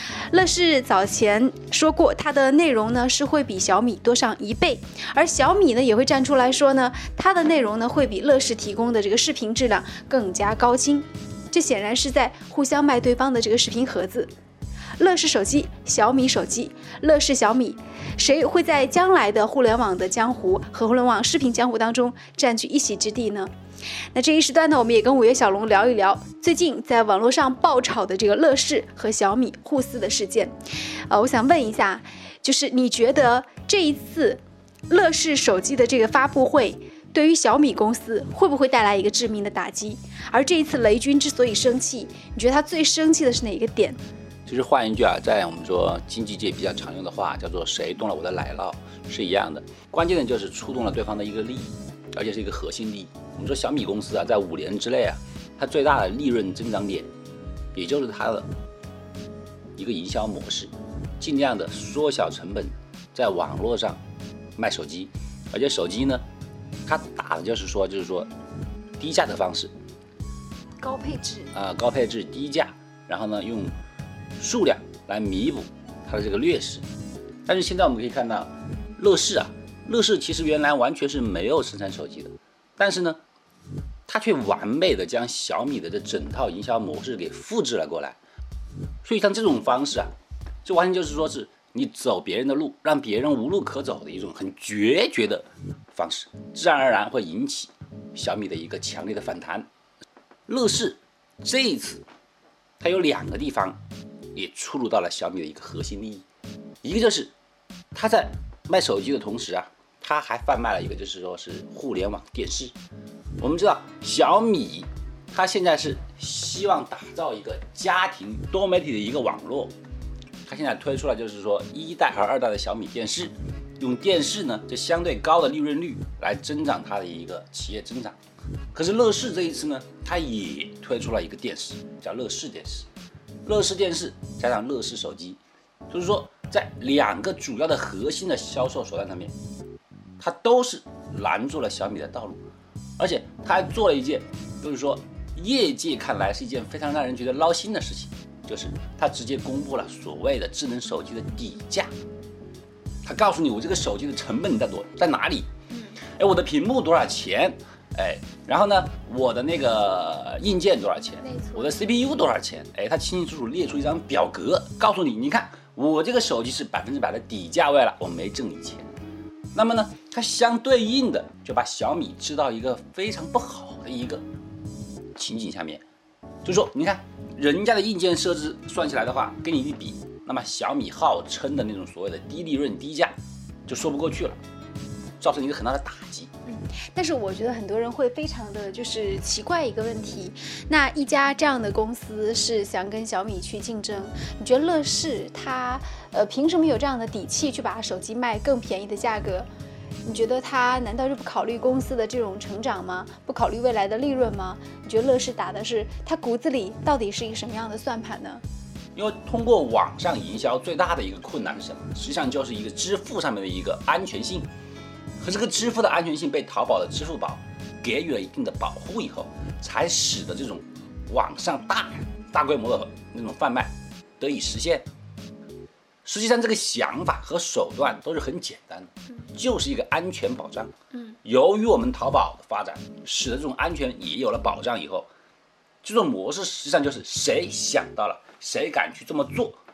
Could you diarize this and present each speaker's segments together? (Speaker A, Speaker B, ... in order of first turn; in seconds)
Speaker A: 0.3-14.3, 15.0-23.5, 24.1-30.5, 31.1-44.0, 70.8-71.5, 155.7-156.0, 161.2-161.8, 186.5-199.5, 200.0-208.4
Speaker B: 44.5-57.1, 57.8-58.5, 59.8-64.0, 64.6-66.2, 66.9-68.3, 69.0-69.7, 71.5-73.8, 74.4-76.8, 77.5-83.2, 84.1-88.2, 89.0-90.1, 90.7-99.7, 100.5-102.0, 102.8-103.8, 104.3-106.2, 106.8-107.3, 107.9-112.7, 113.4-119.7, 120.5-128.2, 128.7-132.9, 133.4-139.3, 140.2-142.4, 143.0-151.9, 153.0-155.5, 156.2-168.9, 169.5-174.2, 175.2-175.8, 176.4-183.1, 183.7-184.4, 185.2-186.3, 208.9-214.5, 215.2-224.9, 226.1-230.7, 231.2-235.1, 235.8-239.6